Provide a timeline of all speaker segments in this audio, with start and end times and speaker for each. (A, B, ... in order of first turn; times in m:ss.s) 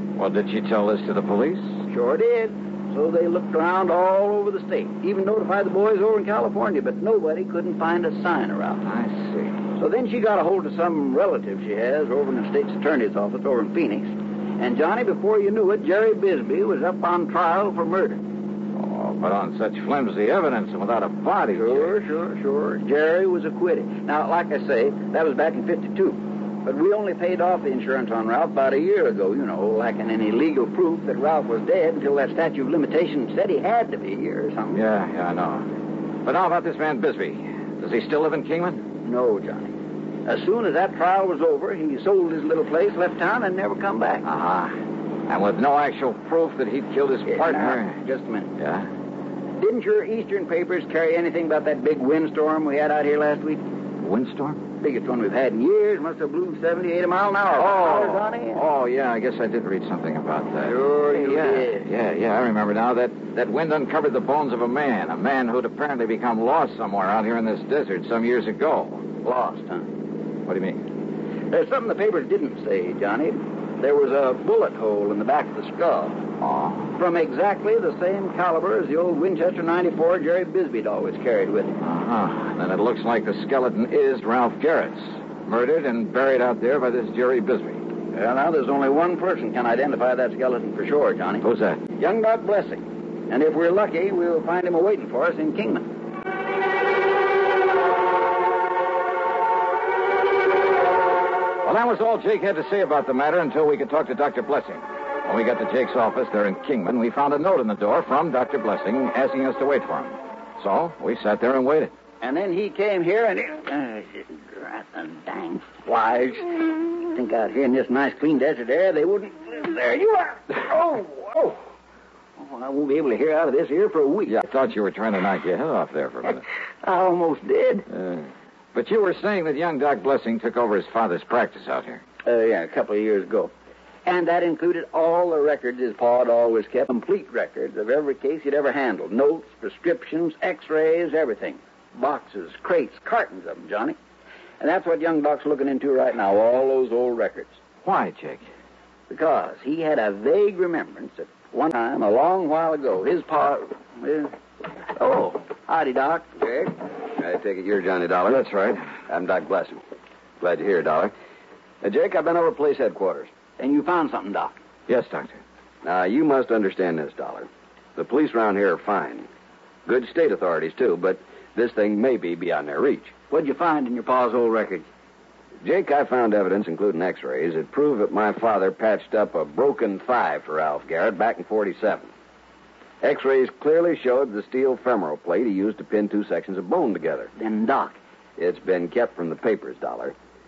0:00.2-0:01.8 A
0:01.9-0:08.8 B
0:08.8-0:09.6 A
0:09.8-0:18.2 B
0:18.8-0:21.9 A
0:21.5-0:34.8 B
0:34.7-0:35.7 A
0:36.2-0:38.8 A
0:39.0-0:39.8 B
0:40.3-0:44.3 B
0:44.2-0:48.0 A
0:47.3-0:48.5 B
0:48.6-0:48.9 A
0:49.6-0:53.6 B
0:54.0-0:54.6 A
0:54.8-0:58.6 B
0:57.6-1:09.1 A
1:00.6-1:01.9 B
1:09.2-1:09.9 B
1:10.5-1:10.8 A
1:11.5-1:16.2 B
1:16.4-1:16.9 A
1:17.0-1:21.8 B
1:21.8-1:27.8 A
1:28.1-1:31.4 B
1:31.4-1:31.8 A
1:32.0-1:35.9 B
1:41.6-1:51.9 A
1:52.2-2:01.6 B
2:02.4-2:04.4 B
2:04.3-2:06.4 A
2:06.8-2:07.9 B
2:07.9-2:12.0 A
2:12.2-2:13.5 B
2:14.1-2:24.0 B
2:24.6-2:27.6 B
2:27.8-2:28.5 A
2:29.1-2:34.3 B
2:35.0-2:36.7 B
2:37.2-2:38.5 C
2:38.3-2:38.8 A
2:39.0-2:39.8 C
2:40.4-2:41.1 C
2:41.8-2:43.3 C
2:43.6-2:44.5 B
2:44.9-2:45.4 A
2:45.8-2:49.3 C
2:49.9-2:53.1 C
2:53.3-2:54.9 B
2:55.6-3:02.1 C
3:03.0-3:07.3 C
3:07.4-3:08.0 B
3:08.4-3:10.2 C